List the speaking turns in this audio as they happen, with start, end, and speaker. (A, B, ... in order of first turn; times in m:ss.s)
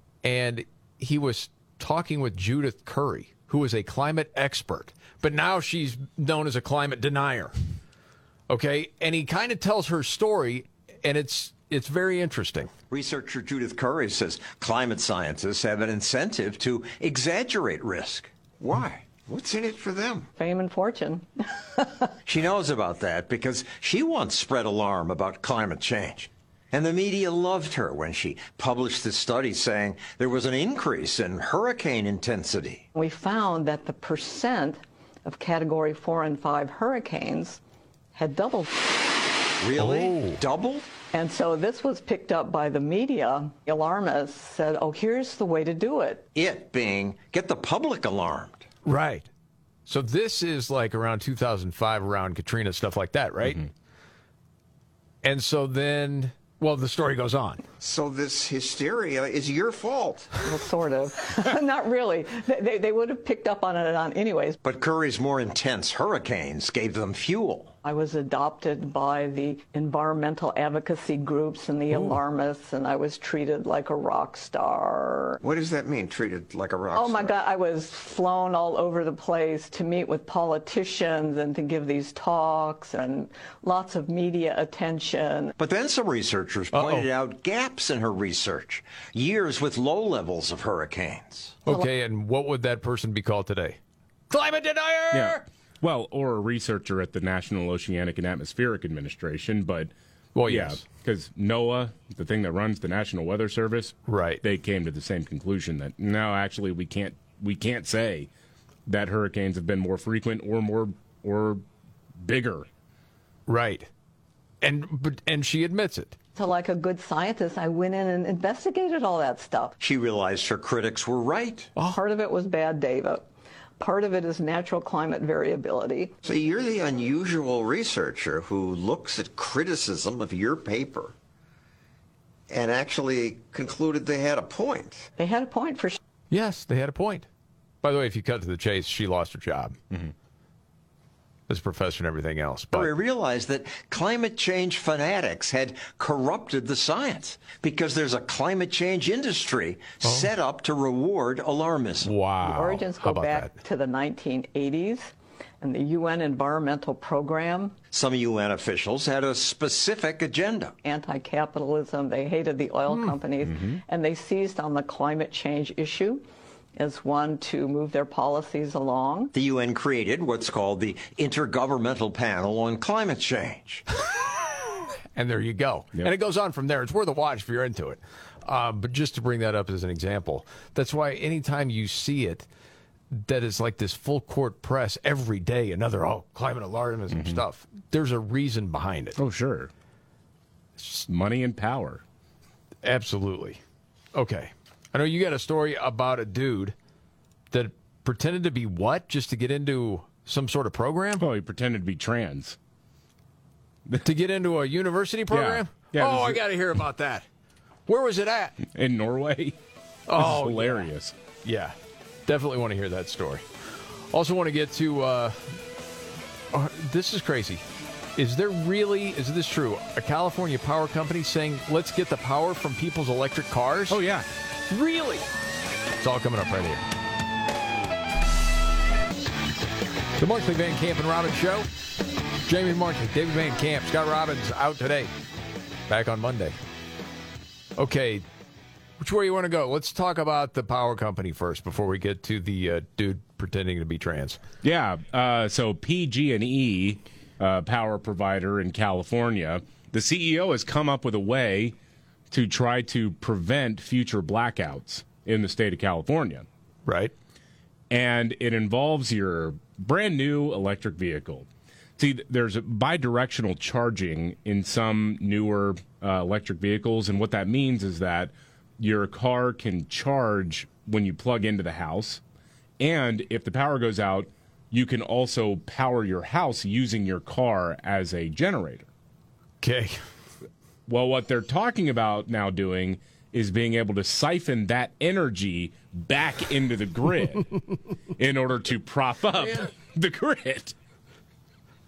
0:00.2-0:07.6 A
0:08.5-0:12.7 A
0:12.9-0:20.3 B
0:20.4-0:21.9 C
0:22.3-0:32.9 B
0:33.0-0:37.6 C
0:38.2-0:38.8 C
0:39.6-0:40.9 B
0:39.8-0:40.4 A
0:41.1-0:46.3 C
0:46.3-0:48.7 B
0:48.8-0:49.3 A
0:49.9-0:53.6 A
0:55.2-0:57.6 A
0:57.8-1:00.3 B
1:00.4-1:04.6 C
1:04.6-1:07.8 B
1:07.8-1:15.4 C
1:15.4-1:17.4 B
1:16.9-1:25.5 C
1:25.6-1:31.6 B
1:26.7-1:27.1 A
1:31.7-1:33.8 A
1:34.3-1:35.4 A
1:35.1-1:39.9 D
1:40.4-1:40.8 A
1:40.5-1:48.3 D
1:44.1-1:44.4 A
1:48.9-1:51.6 D
1:52.2-1:52.7 D
1:53.5-1:53.9 A
1:54.6-1:56.2 A
1:56.4-1:59.8 C
1:59.8-2:01.7 B
2:01.8-2:03.3 C
2:03.8-2:06.2 C
2:06.2-2:11.2 B
2:12.5-2:15.1 B
2:15.2-2:16.0 C
2:16.3-2:17.3 A
2:17.8-2:19.8 A
2:21.5-2:22.9 A
2:22.7-2:32.1 B
2:30.0-2:30.3 A
2:32.0-2:33.5 A
2:32.4-2:37.8 C
2:37.9-2:40.7 B
2:40.8-2:46.2 C
2:42.9-2:43.2 A
2:43.4-2:43.8 D
2:46.8-2:49.3 C
2:49.4-2:53.8 B
2:55.2-3:02.5 A
3:03.1-3:09.2 A
3:07.1-3:07.4 D
3:09.2-3:09.7 D
3:11.0-3:12.0 D
3:12.8-3:13.6 A
3:14.2-3:16.8 A
3:17.5-3:21.2 A
3:21.2-3:22.6 D
3:24.0-3:27.3 A
3:25.3-3:26.4 D
3:27.9-3:28.6 A
3:28.6-3:29.6 D
3:30.1-3:30.9 A
3:30.1-3:31.2 D
3:31.4-3:33.5 A
3:34.1-3:35.6 A
3:36.5-3:37.6 A
3:38.2-3:44.0 A
3:43.9-3:44.3 D
3:44.7-3:45.3 A
3:46.0-3:46.8 A
3:50.2-3:51.7 A
3:52.5-3:55.1 A
3:55.9-3:56.6 A
3:57.8-3:58.2 A
3:59.0-4:04.4 A
4:04.6-4:11.8 D
4:12.3-4:16.5 D
4:16.9-4:17.1 A
4:17.9-4:32.2 D
4:32.8-4:38.9 D
4:39.6-4:40.0 A
4:40.9-4:47.5 D
4:48.2-4:50.8 D